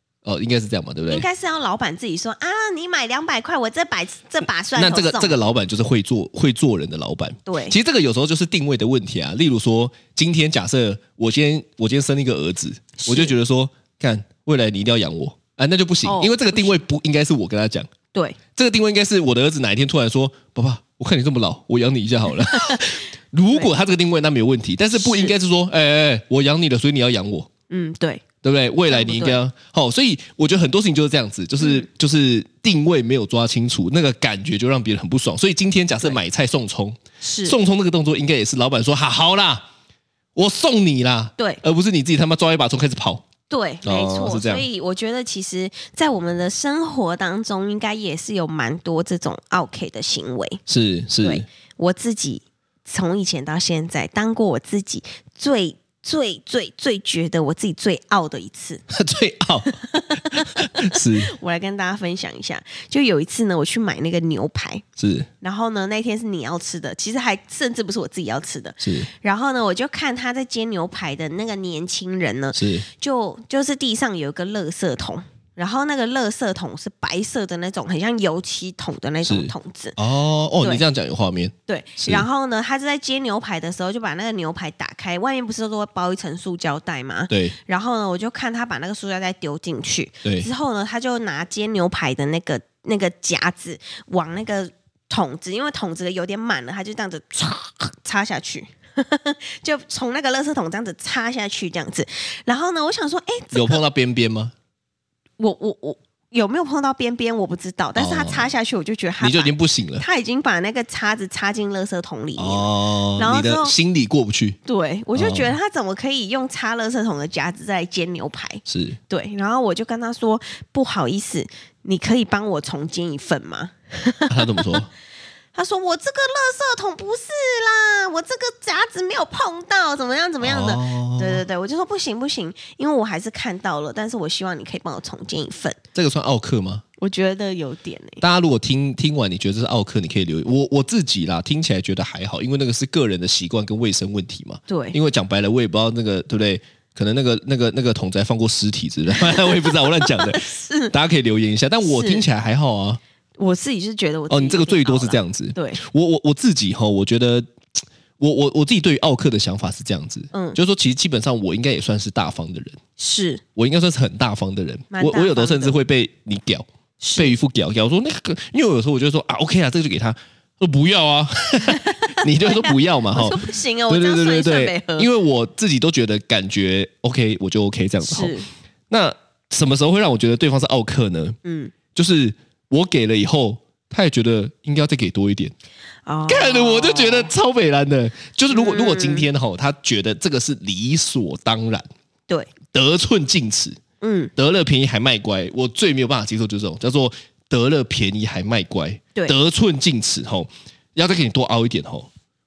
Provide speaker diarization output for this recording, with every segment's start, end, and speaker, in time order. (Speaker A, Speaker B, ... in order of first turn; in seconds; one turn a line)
Speaker A: 0.2-1.3
Speaker B: 1.1-5.3
Speaker A: 4.8-17.9
Speaker B: 7.5-7.8
Speaker B: 13.0-13.3
Speaker B: 16.0-16.8
Speaker A: 18.5-27.5
Speaker B: 22.5-22.9
Speaker B: 25.0-25.3
Speaker B: 27.7-28.2
Speaker A: 28.4-39.6
Speaker B: 28.9-29.4
Speaker B: 31.6-31.9
Speaker B: 37.2-37.5
Speaker A: 40.3-43.2
Speaker B: 43.5-50.6
Speaker A: 43.8-44.6
Speaker A: 50.7-51.4
Speaker B: 51.2-58.8
Speaker A: 58.9-59.7
Speaker B: 59.6-64.8
Speaker A: 60.3-61.3
Speaker A: 65.0-65.3
Speaker B: 65.4-80.0
Speaker A: 68.8-69.1
Speaker A: 72.5-72.8
Speaker A: 79.2-82.2
Speaker B: 81.7-103.8
Speaker A: 87.3-87.5
Speaker A: 103.5-104.5
Speaker B: 105.4-113.7
Speaker A: 108.0-108.5
Speaker A: 109.2-110.0
Speaker A: 112.4-114.6
Speaker B: 114.7-124.8
Speaker A: 115.1-115.5
Speaker A: 118.7-119.0
Speaker A: 124.3-124.9
Speaker B: 125.5-135.8
Speaker A: 130.4-131.4
Speaker A: 135.9-136.8
Speaker B: 137.0-138.2
Speaker A: 138.2-153.0
Speaker B: 144.7-145.0
Speaker B: 149.1-150.9
Speaker B: 151.8-152.2
Speaker B: 153.4-155.8
Speaker A: 154.3-162.8
Speaker B: 160.3-160.6
Speaker B: 163.0-163.4
Speaker A: 163.6-166.7
Speaker B: 164.9-165.8
Speaker B: 167.0-167.4
Speaker A: 167.2-178.3
Speaker B: 171.7-175.1
Speaker B: 178.0-178.5
Speaker A: 178.9-181.3
Speaker B: 181.4-181.7
Speaker A: 181.9-185.5
Speaker B: 186.1-187.3
Speaker A: 186.3-191.9
Speaker B: 188.5-189.3
Speaker A: 192.7-193.8
Speaker B: 194.0-194.3
Speaker A: 194.3-202.1